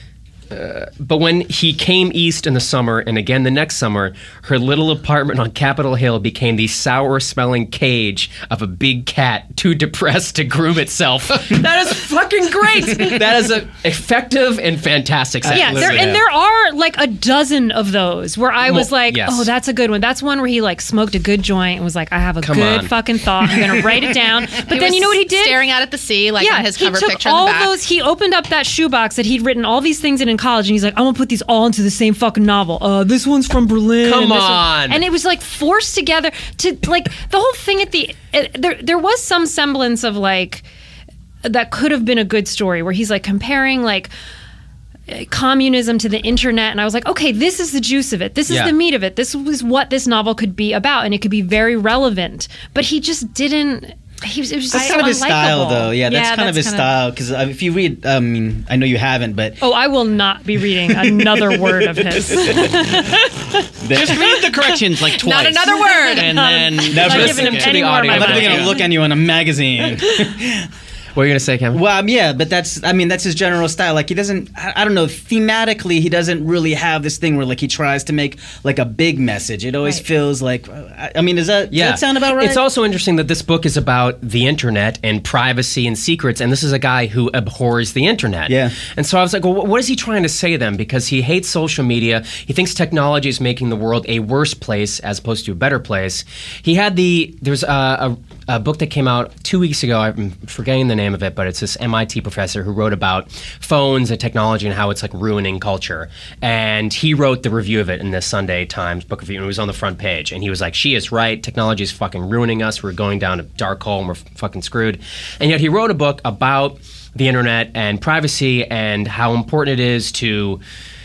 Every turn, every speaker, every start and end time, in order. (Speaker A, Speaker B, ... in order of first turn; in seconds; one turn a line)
Speaker A: 0.5-16.2
Speaker B: 15.5-25.6
Speaker C: 15.7-16.0
Speaker A: 18.6-19.5
Speaker A: 22.4-22.9
Speaker D: 24.6-27.7
Speaker B: 26.4-40.6
Speaker A: 34.0-35.0
Speaker B: 41.4-44.1
Speaker B: 45.1-56.8
Speaker A: 48.5-48.7
Speaker E: 54.7-59.6
Speaker D: 54.7-55.0
Speaker D: 56.1-56.8
Speaker B: 59.6-64.5
Speaker E: 60.8-63.0
Speaker E: 63.8-64.3
Speaker C: 63.9-68.7
Speaker D: 65.1-66.5
Speaker B: 65.7-68.9
Speaker E: 66.9-67.5
Speaker A: 67.0-68.7
Speaker E: 68.1-70.7
Speaker A: 71.1-71.8
Speaker E: 71.7-82.6
Speaker A: 81.7-120.6
Speaker E: 88.5-88.8